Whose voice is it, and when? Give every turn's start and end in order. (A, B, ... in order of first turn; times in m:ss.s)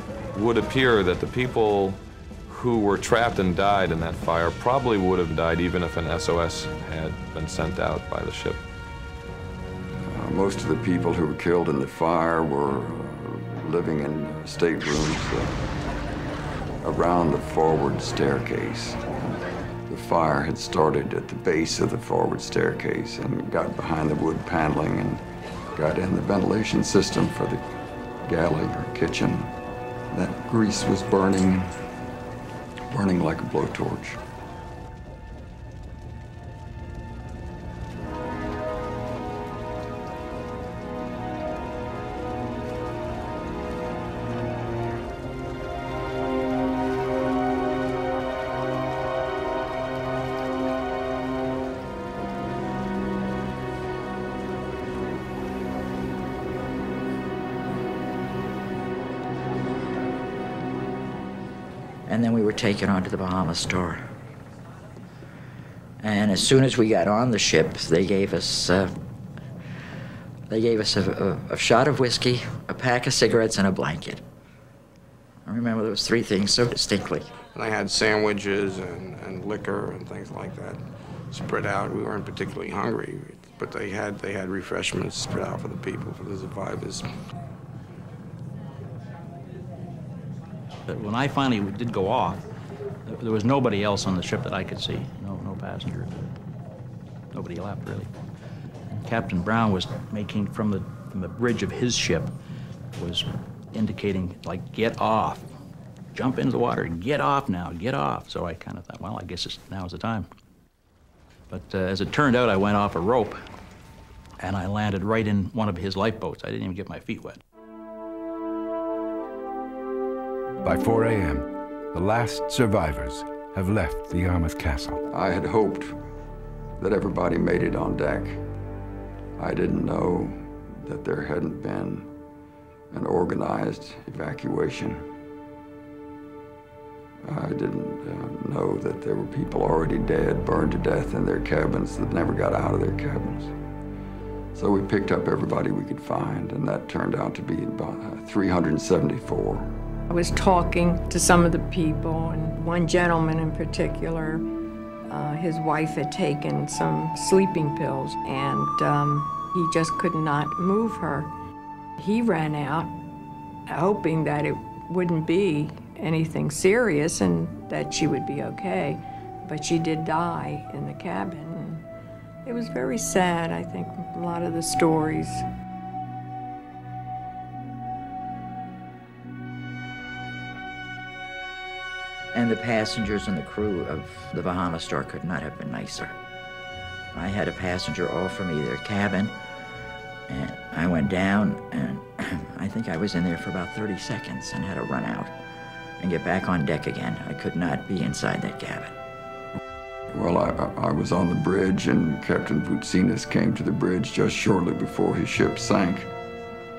0:00.3-0:08.6 A
0:10.0-0:15.6 B
0:16.8-0:25.2 B
0:25.8-0:27.6 B
0:28.2-0:29.5 B
0:30.1-0:31.7 B
0:32.9-0:34.2 B
1:02.1-1:04.1 C
1:06.0-1:09.0 C
1:10.5-1:14.2 C
1:15.5-1:17.3 C
1:17.5-1:27.1 D
1:30.9-1:32.4 E
1:33.1-1:36.3 E
1:37.3-1:38.1 E
1:38.9-1:42.3 E
1:43.0-1:45.5 E
1:46.1-1:50.3 E
1:51.5-1:53.4 E
1:54.4-1:57.4 E
2:00.6-2:05.0 F
2:05.1-2:06.0 B
2:06.8-2:08.4 B
2:09.4-2:12.1 B
2:12.9-2:15.0 B
2:17.2-2:23.5 B
2:24.6-2:29.7 B
2:30.1-2:34.4 G
2:35.1-2:41.3 G
2:42.0-2:42.9 G
2:43.7-2:51.8 G
2:52.4-2:55.4 G
3:02.3-3:06.2 C
3:07.1-3:09.4 C
3:10.3-3:15.3 C
3:16.0-3:19.0 C
3:20.1-3:26.1 B